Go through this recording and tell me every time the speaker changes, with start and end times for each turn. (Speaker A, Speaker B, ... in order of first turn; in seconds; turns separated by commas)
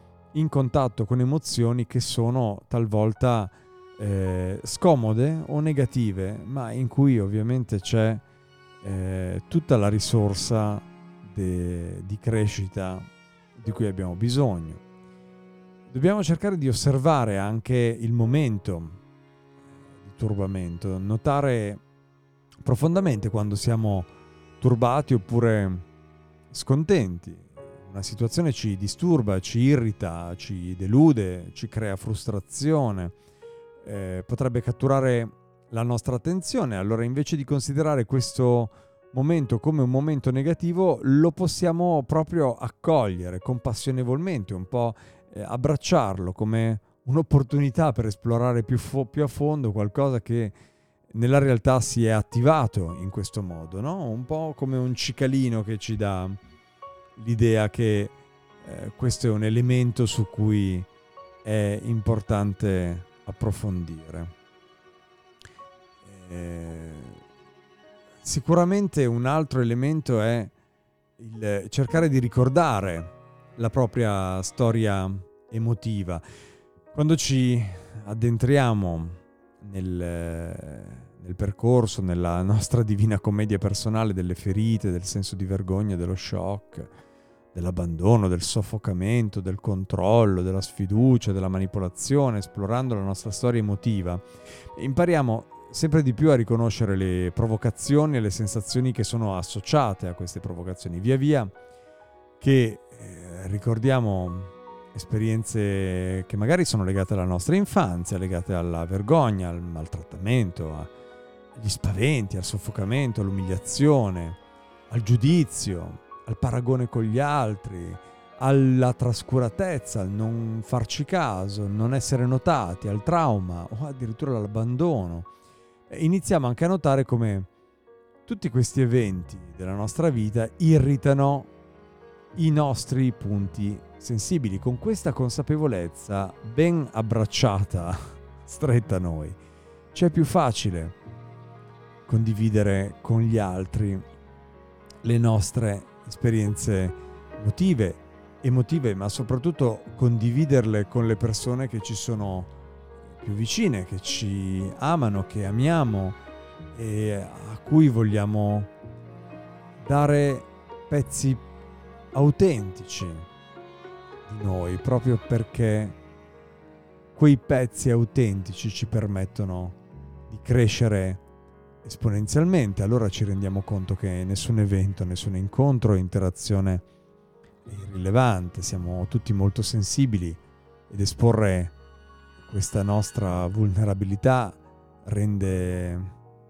Speaker A: 0.3-8.2, Speaker A: 8.8-13.0, Speaker A: 13.6-14.8, Speaker A: 15.9-19.0, Speaker A: 20.0-21.8, Speaker A: 22.6-24.1, Speaker A: 24.6-25.8, Speaker A: 26.5-33.1, Speaker A: 33.8-50.5, Speaker A: 51.1-56.4, Speaker A: 57.2-60.8, Speaker A: 61.4-64.3, Speaker A: 66.0-67.2, Speaker A: 68.2-70.5, Speaker A: 71.2-76.2, Speaker A: 76.9-86.9, Speaker A: 87.5-94.2, Speaker A: 94.7-101.5, Speaker A: 102.4-110.8, Speaker A: 111.6-114.3, Speaker A: 114.9-125.3, Speaker A: 125.9-127.5, Speaker A: 128.3-131.4, Speaker A: 132.4-139.3, Speaker A: 139.9-140.9, Speaker A: 142.1-144.0, Speaker A: 145.0-152.5, Speaker A: 153.2-156.2, Speaker A: 156.8-158.7, Speaker A: 159.8-161.3, Speaker A: 162.1-163.2, Speaker A: 164.3-165.9, Speaker A: 167.2-169.7, Speaker A: 170.3-171.2, Speaker A: 171.8-176.8, Speaker A: 177.7-180.4, Speaker A: 180.9-181.7, Speaker A: 182.5-184.5, Speaker A: 185.1-186.1